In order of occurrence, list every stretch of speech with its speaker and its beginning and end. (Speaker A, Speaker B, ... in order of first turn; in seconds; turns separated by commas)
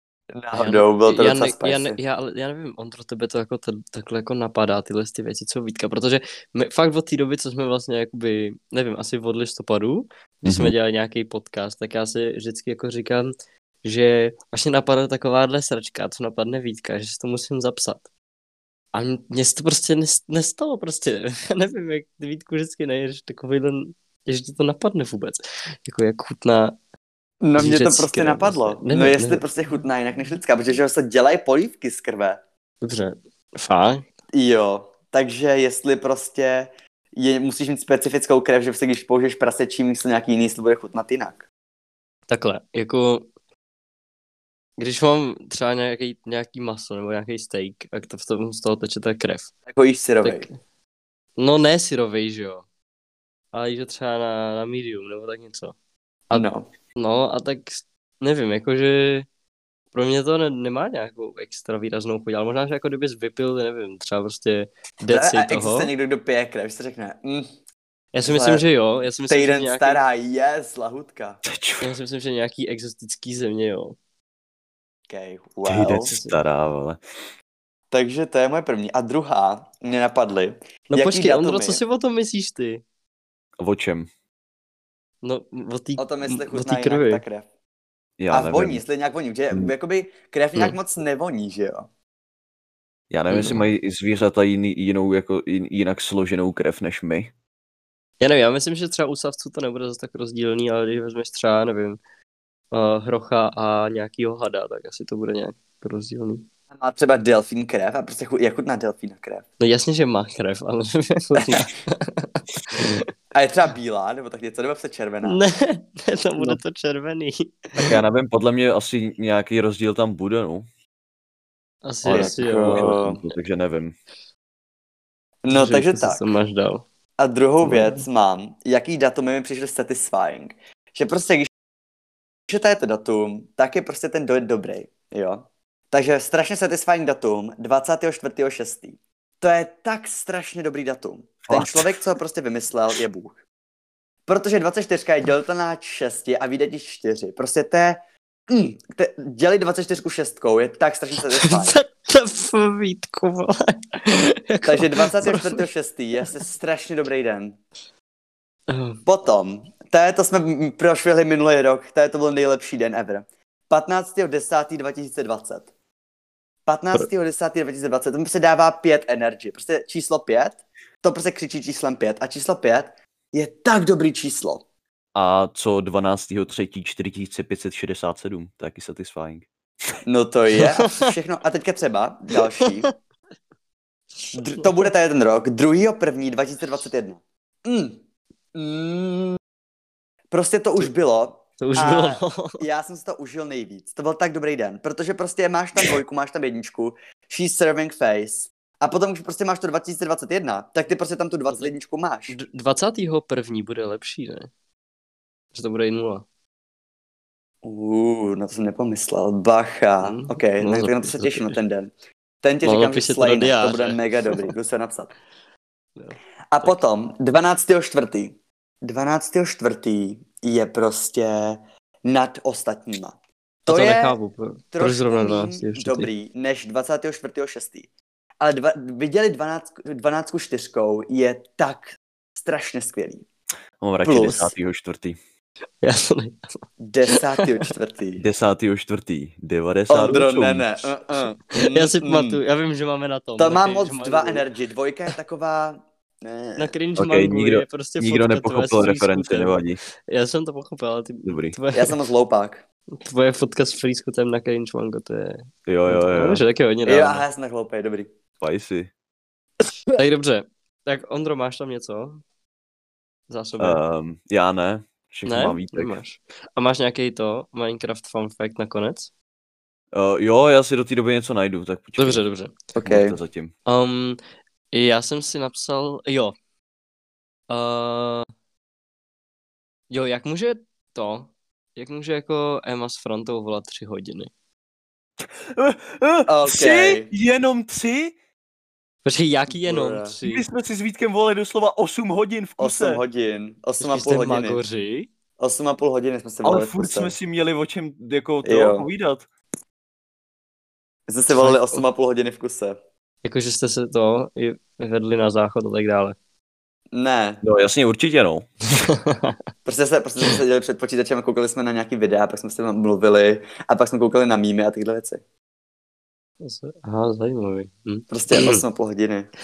Speaker A: 0.3-2.0, Speaker B: 0.5-13.3, Speaker C: 10.4-10.7, Speaker B: 13.8-18.1, Speaker B: 18.9-26.8, Speaker A: 27.4-32.4, Speaker B: 27.6-29.5, Speaker B: 32.8-34.0, Speaker A: 34.3-41.5, Speaker B: 42.3-43.3, Speaker B: 44.8-49.5, Speaker A: 49.7-50.5, Speaker B: 50.2-50.5, Speaker B: 51.4-52.6, Speaker B: 53.5-55.8, Speaker B: 56.3-59.3, Speaker A: 56.3-56.7, Speaker B: 59.9-65.9, Speaker A: 65.1-67.5, Speaker B: 68.1-70.0, Speaker A: 68.3-68.6, Speaker A: 69.3-71.4, Speaker C: 71.5-71.9, Speaker B: 71.8-74.0, Speaker A: 75.1-76.1, Speaker C: 75.7-77.0, Speaker B: 76.0-76.4, Speaker A: 77.9-81.8, Speaker B: 80.9-82.8, Speaker C: 83.6-84.1, Speaker B: 85.2-87.2, Speaker A: 86.0-87.5, Speaker C: 88.2-88.8, Speaker A: 88.3-91.9, Speaker C: 93.1-97.3, Speaker B: 93.3-93.6, Speaker B: 98.2-102.0, Speaker B: 102.7-106.5, Speaker A: 106.7-109.5, Speaker B: 109.6-113.0, Speaker A: 113.3-115.4, Speaker B: 115.2-118.0, Speaker C: 117.8-120.7, Speaker B: 121.8-123.3, Speaker C: 122.0-123.9, Speaker A: 122.1-123.2, Speaker A: 125.4-126.2, Speaker B: 125.5-126.8, Speaker A: 127.2-131.5, Speaker B: 127.7-128.0, Speaker A: 132.5-143.4, Speaker C: 141.5-141.9, Speaker A: 144.3-151.8, Speaker B: 151.3-155.6, Speaker A: 154.6-157.6, Speaker B: 158.7-159.0, Speaker A: 159.1-165.7, Speaker A: 166.7-174.6, Speaker C: 175.2-179.5, Speaker A: 180.1-182.9, Speaker B: 180.6-181.0, Speaker B: 182.6-182.9, Speaker B: 184.2-184.9, Speaker A: 184.3-188.0, Speaker A: 188.6-189.4, Speaker A: 190.3-202.3, Speaker B: 191.6-192.6, Speaker B: 202.3-204.5, Speaker B: 205.5-206.2, Speaker A: 207.6-215.1, Speaker B: 210.0-211.6, Speaker B: 212.6-214.5, Speaker B: 216.0-216.8, Speaker A: 216.5-224.1, Speaker B: 223.7-226.1, Speaker A: 224.7-227.9, Speaker A: 228.4-233.2, Speaker C: 233.8-235.2, Speaker A: 234.0-234.5, Speaker B: 235.8-236.6, Speaker A: 236.8-238.2, Speaker C: 238.2-240.8, Speaker A: 239.9-242.4, Speaker B: 241.5-244.4, Speaker A: 243.4-246.7, Speaker B: 246.6-251.9, Speaker C: 247.0-249.8, Speaker C: 251.3-251.6, Speaker A: 251.7-252.6, Speaker B: 253.1-257.2, Speaker C: 255.7-256.4, Speaker A: 256.9-258.1, Speaker C: 258.4-258.9, Speaker B: 260.0-262.2, Speaker B: 263.3-263.8, Speaker C: 263.6-266.0, Speaker B: 265.3-269.1, Speaker C: 269.9-272.2, Speaker B: 272.0-272.6, Speaker A: 272.8-273.2, Speaker C: 272.8-273.5, Speaker B: 273.7-274.2, Speaker B: 274.7-276.3, Speaker B: 277.5-278.2, Speaker B: 279.9-284.3, Speaker C: 285.2-288.1, Speaker A: 286.3-287.1, Speaker B: 289.1-290.5, Speaker A: 289.5-290.1, Speaker C: 290.2-293.0, Speaker A: 292.6-294.6, Speaker B: 293.8-295.1, Speaker A: 295.4-297.1, Speaker C: 296.4-299.3, Speaker A: 298.4-298.9, Speaker A: 301.1-302.8, Speaker B: 301.3-301.8, Speaker B: 303.2-306.2, Speaker A: 306.9-307.4, Speaker C: 307.4-308.5, Speaker B: 309.1-309.4, Speaker A: 309.6-315.2, Speaker B: 316.4-318.6, Speaker A: 318.1-319.3